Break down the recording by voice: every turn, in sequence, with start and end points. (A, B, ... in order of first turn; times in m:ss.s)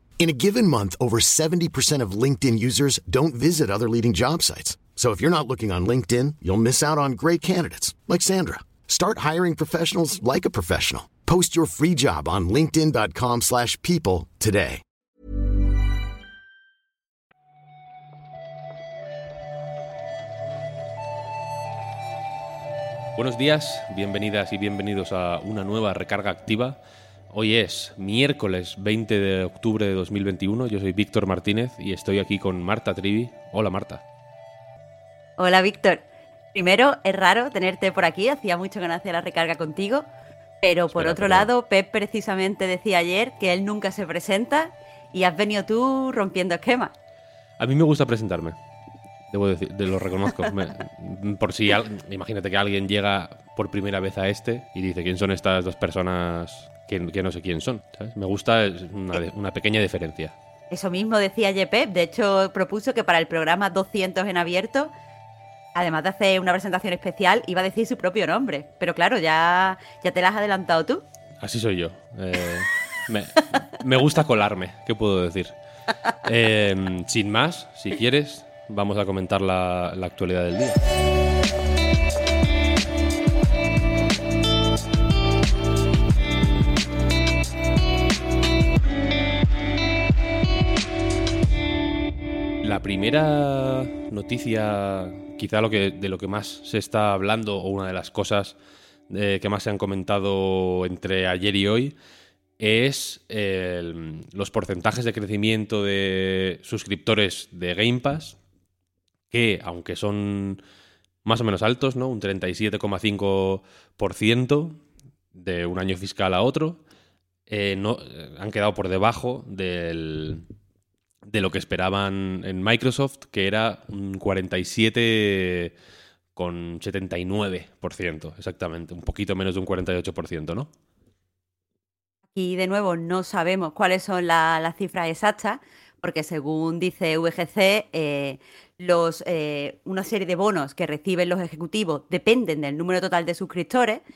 0:00.2-0:14.8 A
0:23.2-0:26.8 B
0:27.3-0:34.0 B
0:35.4-0:40.1 C
0:40.6-0:46.9 C
0:40.9-0:41.5 B
0:47.6-0:48.6 B
0:49.3-1:00.3 B
1:00.7-1:04.9 C
1:05.7-1:11.0 C
1:11.4-1:15.6 B
1:16.2-1:20.8 B
1:32.6-1:38.6 B
1:39.1-1:42.0 B
1:42.6-1:48.4 B
1:49.3-1:50.6 B
1:51.2-1:54.8 B
1:55.4-1:56.8 B
1:57.5-2:00.4 B
2:01.3-2:05.7 B
2:06.4-2:10.7 B
2:12.3-2:24.0 C